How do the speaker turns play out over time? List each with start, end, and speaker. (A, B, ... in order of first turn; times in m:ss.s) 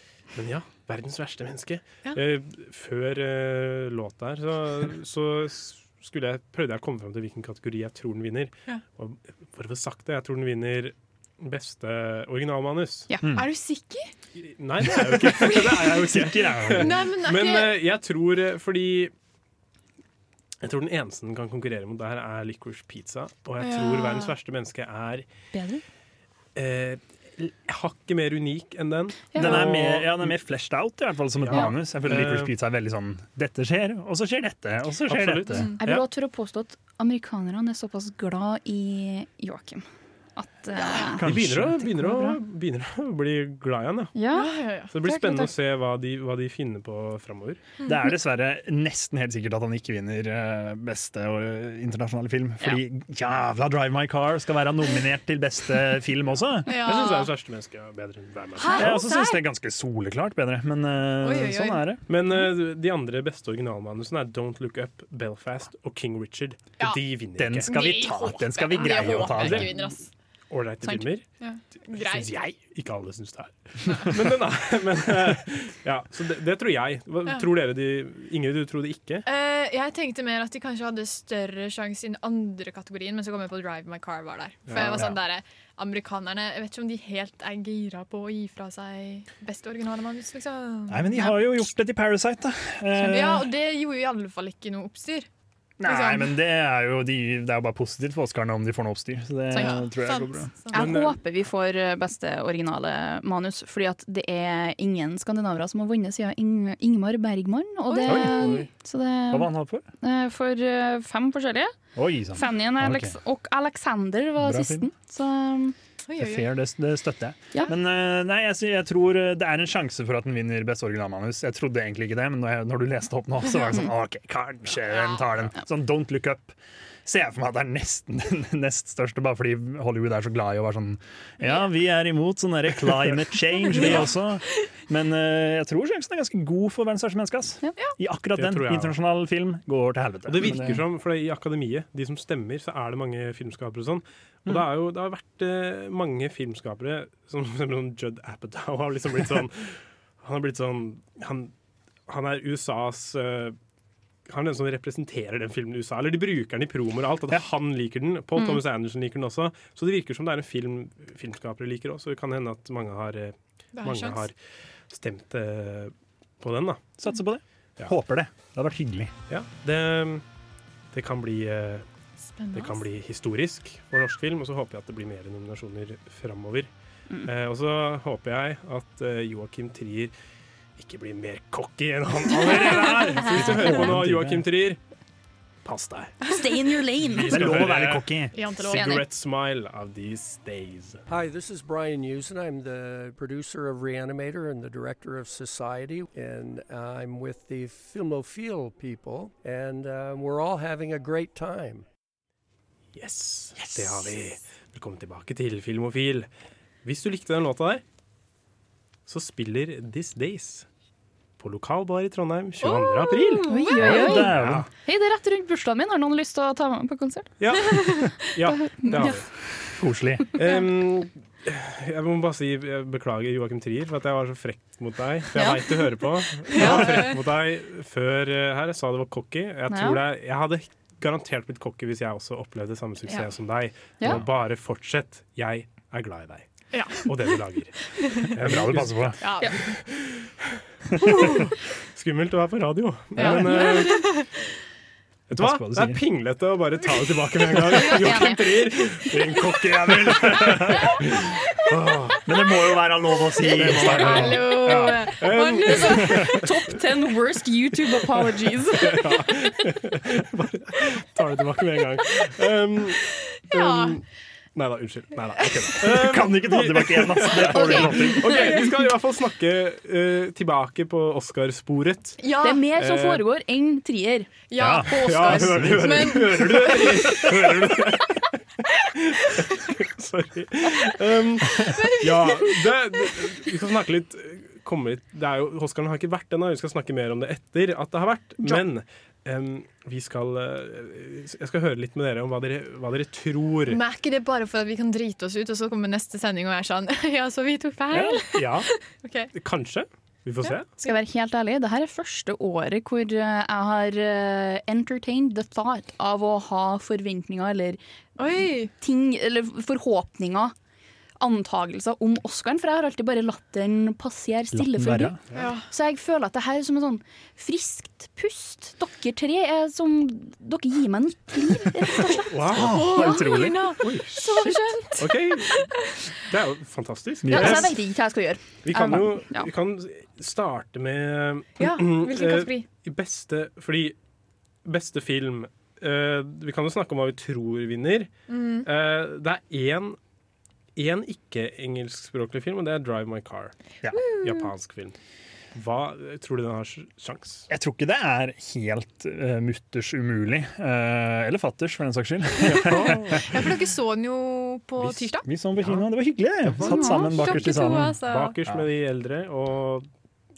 0:00.4-0:13.1 A
0:13.1-0:13.4 B
0:13.3-0:14.1 C
0:14.4-0:19.1 A
0:14.8-0:16.9 D
0:15.5-0:15.9 C
0:16.8-0:17.7 C
0:20.6-0:25.3 A
0:23.6-0:24.3 C
0:25.5-0:25.8 B
0:26.6-0:30.3 A
0:29.3-0:29.7 B
0:29.4-0:35.7 D
0:31.4-0:32.5 A
0:35.1-0:36.0 A
0:35.5-0:35.8 C
0:35.8-0:41.2 B
0:40.9-0:41.2 C
0:41.2-0:41.9 D
0:41.2-0:44.1 A
0:41.8-0:42.4 B
0:44.1-0:45.5 B
0:44.3-0:44.9 C
0:44.9-0:47.6 A
0:47.8-0:48.1 C
0:47.8-0:56.7 D
0:56.6-0:59.0 A
0:56.6-0:57.3 C
0:58.6-0:59.4 C
0:58.8-1:02.0 D
1:01.2-1:01.9 C
1:02.1-1:08.1 A
1:06.8-1:10.1 C
1:07.4-1:09.8 D
1:08.9-1:09.9 A
1:10.5-1:11.4 A
1:10.8-1:11.1 B
1:11.4-1:12.5 C
1:11.9-1:19.2 A
1:13.9-1:14.2 C
1:19.3-1:31.7 C
1:24.7-1:25.1 A
1:24.7-1:25.2 D
1:30.9-1:33.5 D
1:32.9-1:35.3 C
1:35.8-1:40.5 D
1:35.8-1:36.3 C
1:39.5-1:41.0 C
1:39.5-1:39.8 B
1:40.7-1:51.8 B
1:40.7-1:41.2 A
1:47.9-1:48.7 C
1:48.1-1:48.6 D
1:48.1-1:48.7 A
1:49.3-1:49.8 D
1:52.0-1:53.1 D
1:52.3-1:55.8 B
1:54.4-1:54.9 D
1:56.1-1:56.5 C
1:56.2-2:20.8 D
2:04.8-2:05.4 C
2:13.7-2:14.1 C
2:18.4-2:18.9 A
2:20.3-2:31.5 A
2:32.1-2:33.6 A
2:34.3-2:46.9 A
2:38.4-2:38.6 B
2:43.8-2:44.3 C
2:47.0-2:49.1 D
2:49.3-2:50.2 A
2:50.9-2:51.9 A
2:52.3-2:52.8 C
2:52.5-2:56.7 A
2:57.2-3:00.1 A
3:00.8-3:04.8 A
3:02.2-3:04.5 D
3:03.3-3:03.8 B
3:05.6-3:06.2 A
3:06.3-3:07.4 B
3:07.0-3:11.0 A
3:07.2-3:08.4 D
3:08.3-3:09.0 C
3:08.7-3:09.1 B
3:11.1-3:21.9 E
3:22.9-3:26.3 A
3:26.8-3:27.8 A
3:29.1-3:30.7 A
3:31.4-3:34.7 A
3:32.6-3:34.3 C
3:33.5-3:38.0 B
3:33.7-3:34.7 D
3:37.4-3:39.3 A
3:38.5-3:39.4 B
3:39.6-3:40.4 D
3:40.4-4:00.5 A
3:45.4-3:45.9 B
3:46.5-3:47.1 C
3:49.7-3:50.0 B
3:56.7-3:57.1 C
3:58.4-3:59.2 D
3:59.2-3:59.8 C
4:01.0-4:01.6 C
4:01.9-4:04.3 A
4:03.2-4:04.3 C
4:03.2-4:03.8 D
4:05.3-4:06.0 D
4:05.3-4:12.2 A
4:07.9-4:08.6 B
4:09.7-4:10.9 D
4:12.2-4:15.2 D
4:13.4-4:16.5 C
4:13.6-4:16.4 A
4:15.6-4:19.2 B
4:18.8-4:32.2 A
4:23.4-4:24.0 C
4:25.8-4:28.6 D
4:27.3-4:28.7 C
4:32.2-4:32.7 C
4:32.4-4:34.3 B
4:32.8-4:33.2 A
4:34.5-4:37.6 C
4:34.6-4:37.7 D
4:34.9-4:53.8 A
4:41.6-4:42.7 C
4:53.7-4:59.3 C
4:57.9-4:58.2 D
4:58.3-4:58.7 A
4:59.3-5:00.7 A
5:00.4-5:01.0 C
5:00.8-5:07.8 B
5:08.2-5:08.7 C
5:08.6-5:10.5 B
5:11.2-5:15.2 B
5:14.5-5:15.2 D
5:15.4-5:15.7 C
5:15.7-5:22.2 B
5:22.0-5:25.7 C
5:22.3-5:23.1 A
5:22.5-5:24.0 D
5:23.8-5:24.4 A
5:25.0-5:25.7 A
5:26.3-5:27.8 A
5:27.2-5:27.7 D
5:27.3-5:29.5 B
5:28.6-5:34.0 A
5:31.6-5:32.6 C
5:34.6-5:40.0 A
5:38.3-5:38.6 C
5:40.8-5:43.6 A
5:43.9-5:44.5 C
5:44.2-5:45.0 A
5:45.5-5:47.5 A
5:47.5-5:53.0 D
5:52.4-5:53.2 A
5:52.9-5:55.2 C
5:54.8-5:55.0 A
5:55.2-5:58.6 D
5:55.6-5:55.8 A
5:56.5-5:59.9 A
5:56.6-5:57.2 B
5:56.6-5:58.4 C